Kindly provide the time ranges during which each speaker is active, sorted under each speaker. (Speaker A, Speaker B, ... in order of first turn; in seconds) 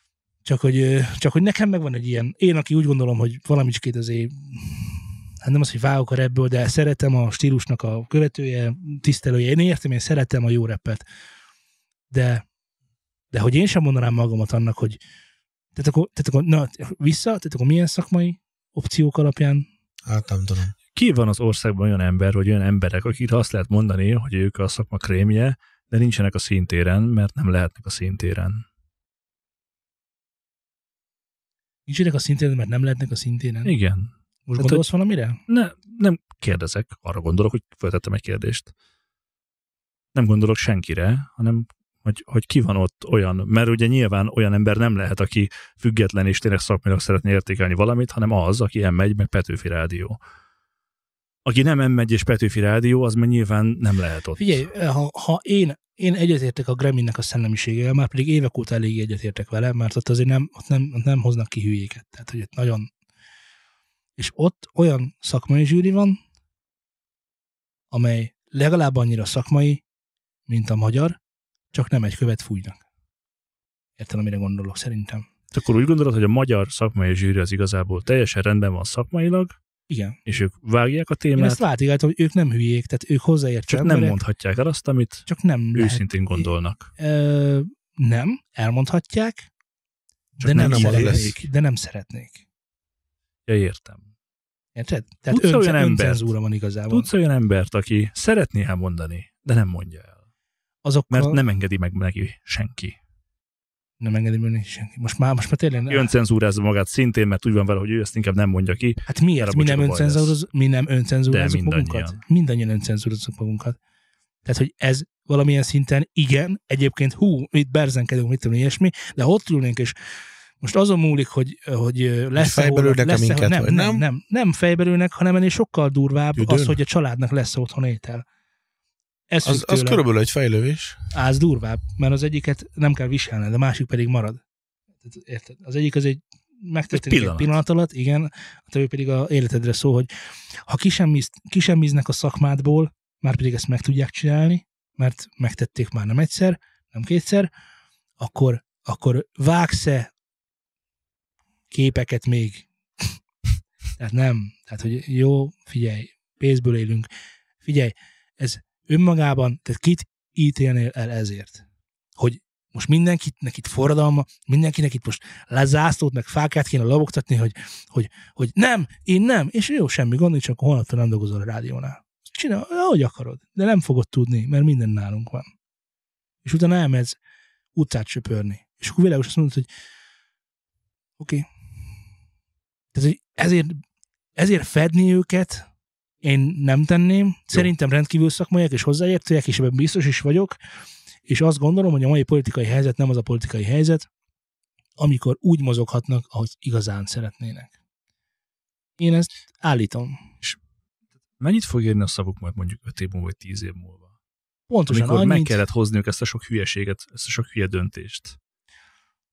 Speaker A: 0.4-11.0, 12.1-12.4, 13.3-15.0, 15.7-19.6, 31.9-33.7, 34.5-35.4, 54.4-62.9, 64.2-66.2, 67.9-69.8, 70.5-71.2, 71.7-72.8, 74.0-75.3, 79.9-80.2, 81.3-84.2, 85.3-89.5, 90.4-92.4, 94.7-97.1, 100.8-101.4, 104.0-106.1, 109.0-113.8, 114.4-119.9, 120.6-128.2, 129.3-130.0, 131.1-134.4, 135.0-140.1, 140.7-147.5, 148.2-150.1, 151.7-152.7, 154.0-157.1, 157.6-161.6, 162.2-175.5, 176.4-177.2, 177.8-179.7, 181.2-181.5, 182.9-183.8, 184.3-185.7, 186.2-190.6, 191.3-194.1, 195.0-197.7, 199.0-200.2, 204.7-205.6
Speaker B: 20.1-20.7, 90.5-91.3, 122.4-124.0, 126.4-126.8, 129.4-131.0
Speaker C: 20.9-28.6, 33.6-34.8, 35.5-38.7, 40.1-50.2, 51.4-54.6, 75.5-79.5, 80.3-81.6, 83.7-86.9, 90.4-91.4, 93.5-94.0, 95.3-96.3, 96.9-100.1, 101.1-102.9, 105.9-110.3, 111.3-112.2, 136.9-137.5, 201.4-204.0, 204.9-208.3